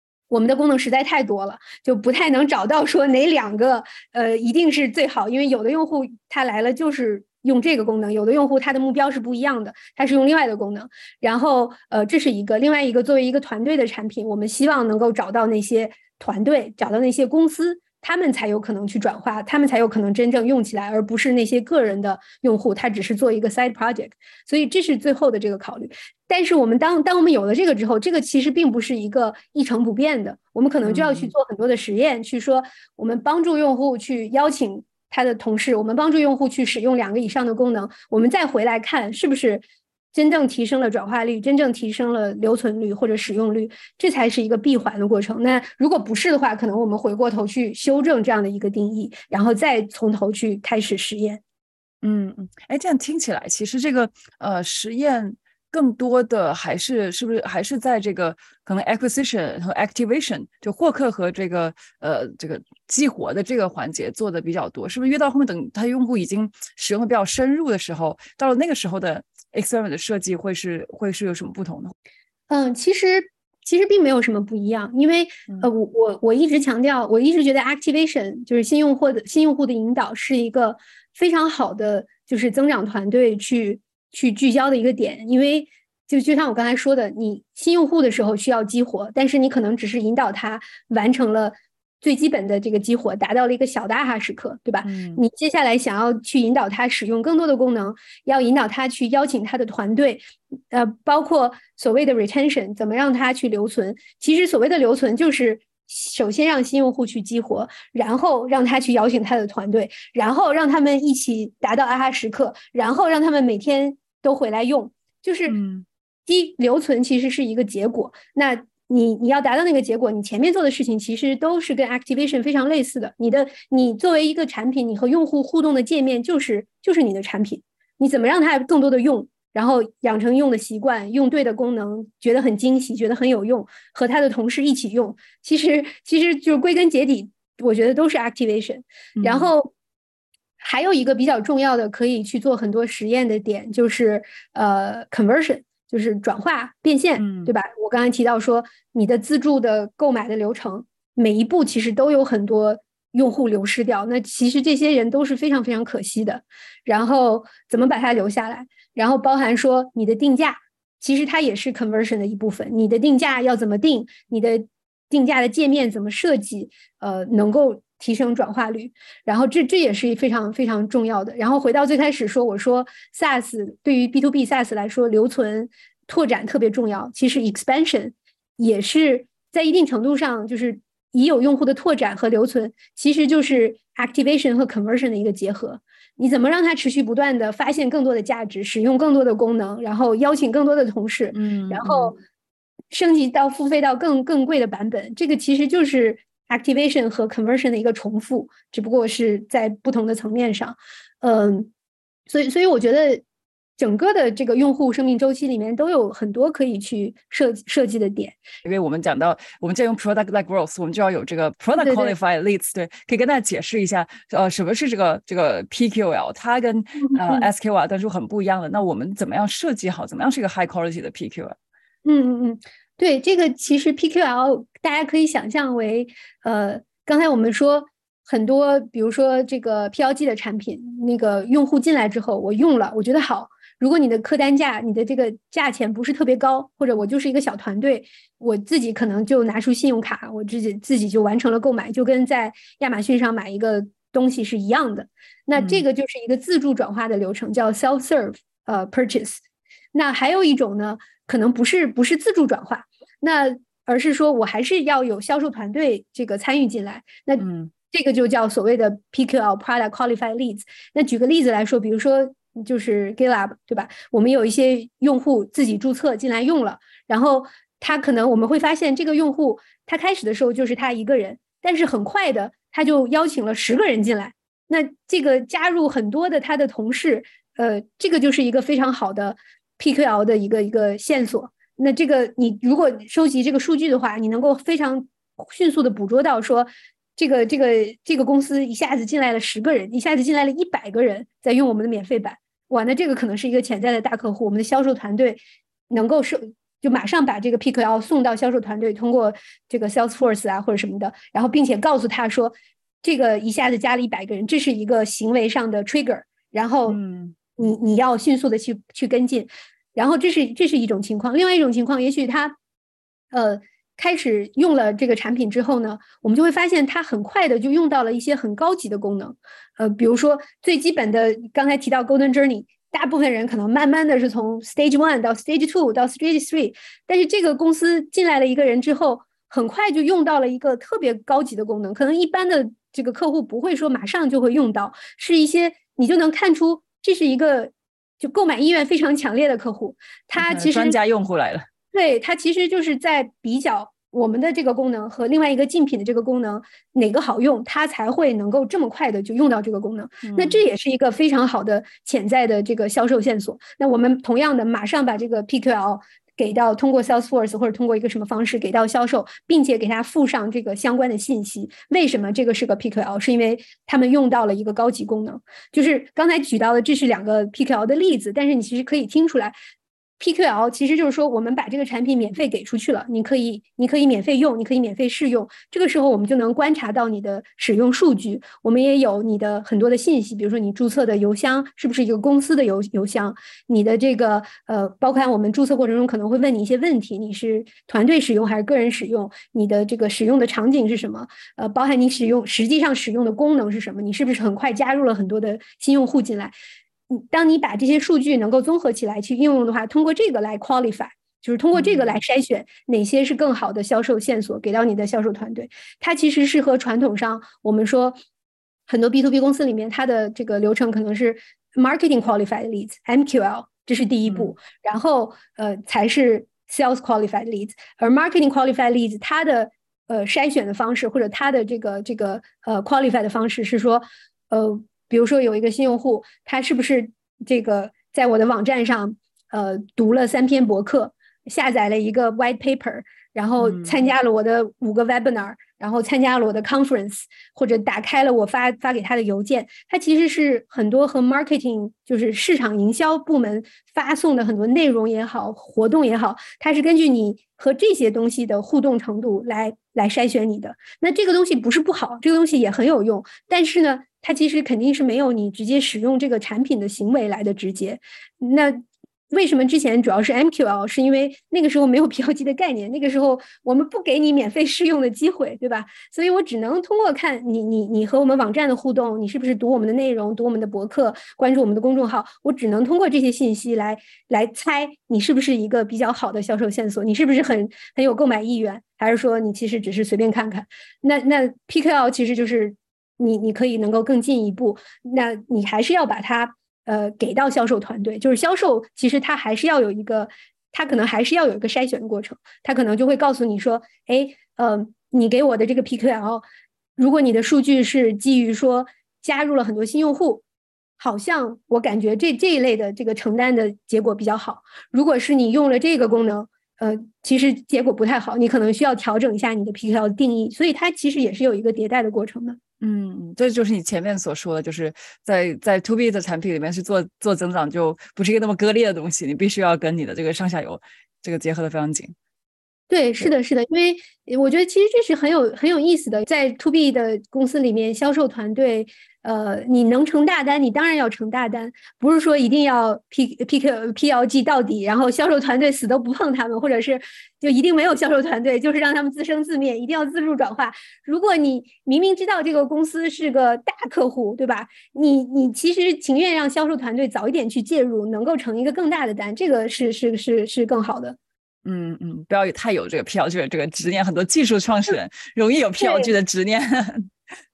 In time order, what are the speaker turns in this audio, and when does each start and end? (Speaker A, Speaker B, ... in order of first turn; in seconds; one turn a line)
Speaker A: 0.3-51.4
Speaker B: 30.8-31.3
Speaker B: 52.0-71.9
Speaker A: 72.5-115.6
Speaker B: 94.8-95.2
Speaker B: 115.5-115.8
Speaker A: 116.3-139.7
Speaker B: 139.2-139.5
Speaker A: 140.6-192.2
Speaker B: 147.2-147.5
Speaker B: 191.3-192.1
Speaker A: 192.9-201.7
Speaker A: 202.3-203.2
Speaker A: 203.8-208.4
Speaker B: 208.6-221.6
Speaker A: 211.8-212.1
Speaker A: 217.1-217.4
Speaker A: 222.0-249.4
Speaker B: 245.6-245.8
Speaker A: 249.9-295.4
Speaker B: 257.4-257.7
Speaker A: 295.9-307.0
Speaker B: 306.9-307.4
Speaker A: 307.6-312.6
Speaker A: 313.3-340.9
Speaker B: 340.3-341.7
Speaker A: 341.9-369.5
Speaker B: 350.2-350.6
Speaker A: 370.2-396.5
Speaker A: 397.1-408.2
Speaker B: 401.7-402.2
Speaker A: 408.9-496.4
Speaker B: 414.3-414.5
Speaker B: 433.6-434.0
Speaker A: 497.0-500.4
Speaker A: 501.0-512.6
Speaker B: 512.8-522.1
Speaker A: 522.9-551.2
Speaker B: 551.6-557.1
Speaker A: 555.8-556.1